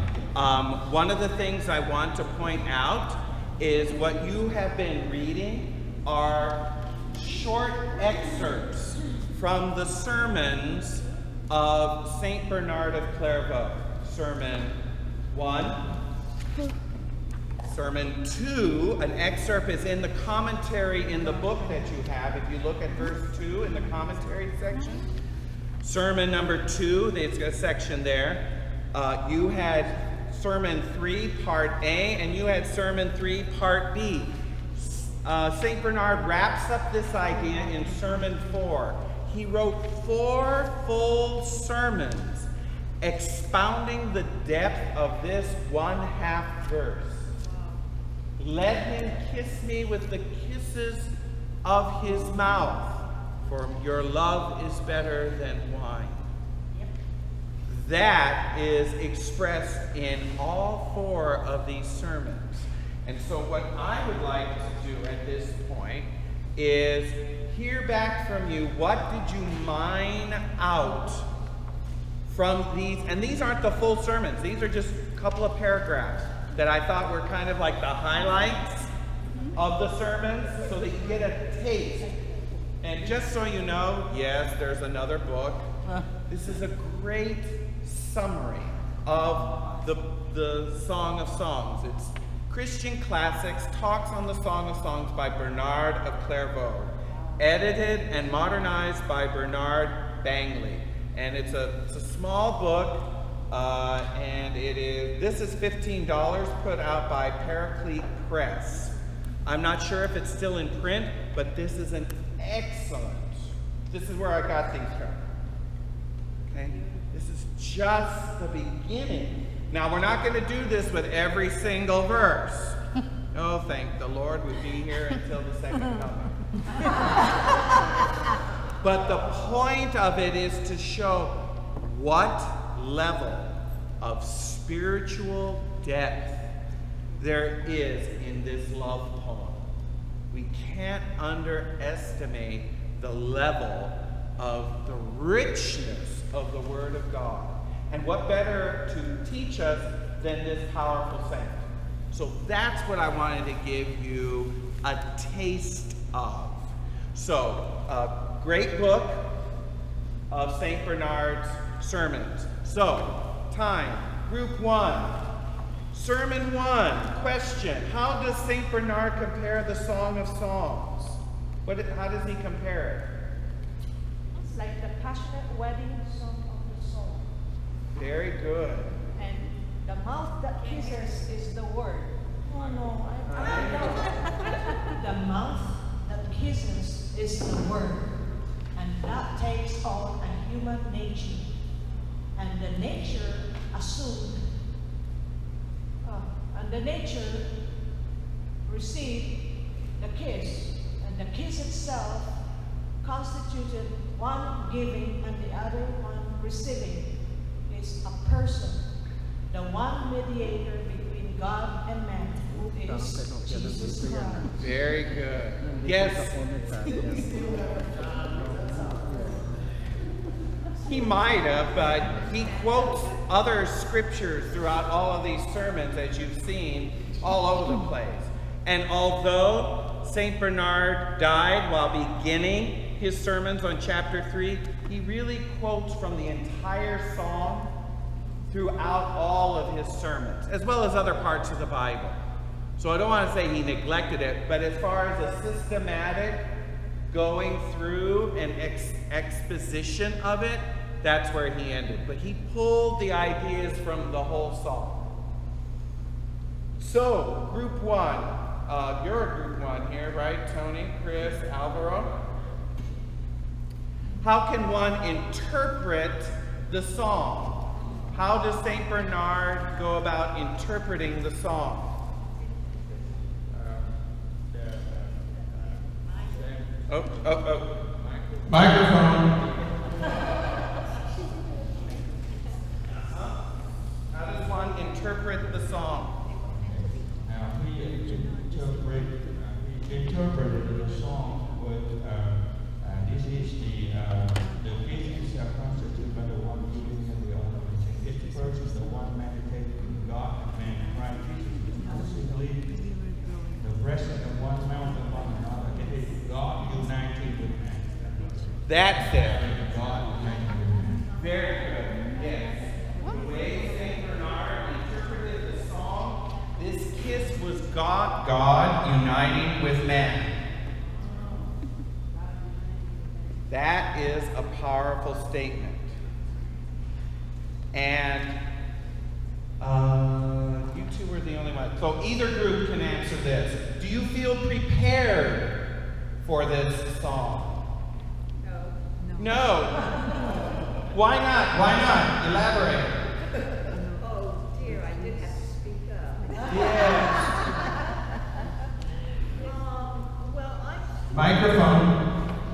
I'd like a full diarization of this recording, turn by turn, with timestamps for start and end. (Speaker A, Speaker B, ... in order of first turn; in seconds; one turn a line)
Speaker A: 0.3-14.8
Speaker A: 15.3-15.8
Speaker A: 17.6-25.1
Speaker A: 25.8-42.5
Speaker A: 43.0-47.3
Speaker A: 48.4-51.1
Speaker A: 51.6-56.3
Speaker A: 57.7-71.3
Speaker A: 72.3-78.9
Speaker A: 79.5-82.1
Speaker A: 82.8-85.7
Speaker A: 86.3-108.9
Speaker A: 109.5-115.2
Speaker A: 116.5-122.8
Speaker A: 123.3-126.3
Speaker A: 128.8-136.4
Speaker A: 137.2-139.6
Speaker A: 140.3-159.3
Speaker A: 160.3-165.2
Speaker A: 165.9-173.1
Speaker B: 174.4-177.3
Speaker A: 177.9-178.9
Speaker B: 179.1-188.1
Speaker C: 183.3-184.1
Speaker B: 188.7-191.5
Speaker B: 192.3-194.5
Speaker B: 196.0-197.5
Speaker B: 198.6-202.4
Speaker B: 203.0-208.9
Speaker B: 209.5-214.5
Speaker A: 214.6-217.6
Speaker A: 220.8-237.7
Speaker A: 238.5-242.2
Speaker A: 242.8-246.4
Speaker A: 247.1-255.1
Speaker A: 256.8-262.1
Speaker A: 264.2-271.9
Speaker D: 273.5-280.2
Speaker A: 276.9-277.7
Speaker A: 278.5-279.3
Speaker A: 283.0-283.4
Speaker A: 284.1-286.1
Speaker D: 286.4-303.0
Speaker D: 303.6-311.1
Speaker A: 308.6-309.4
Speaker A: 311.1-320.3
Speaker A: 323.5-325.9
Speaker A: 327.7-328.3
Speaker A: 329.6-335.5
Speaker A: 336.2-337.6
Speaker C: 338.4-338.8
Speaker A: 339.1-340.2
Speaker A: 340.9-343.0
Speaker C: 343.9-347.2
Speaker A: 346.5-347.3
Speaker C: 349.4-351.0
Speaker A: 351.1-352.0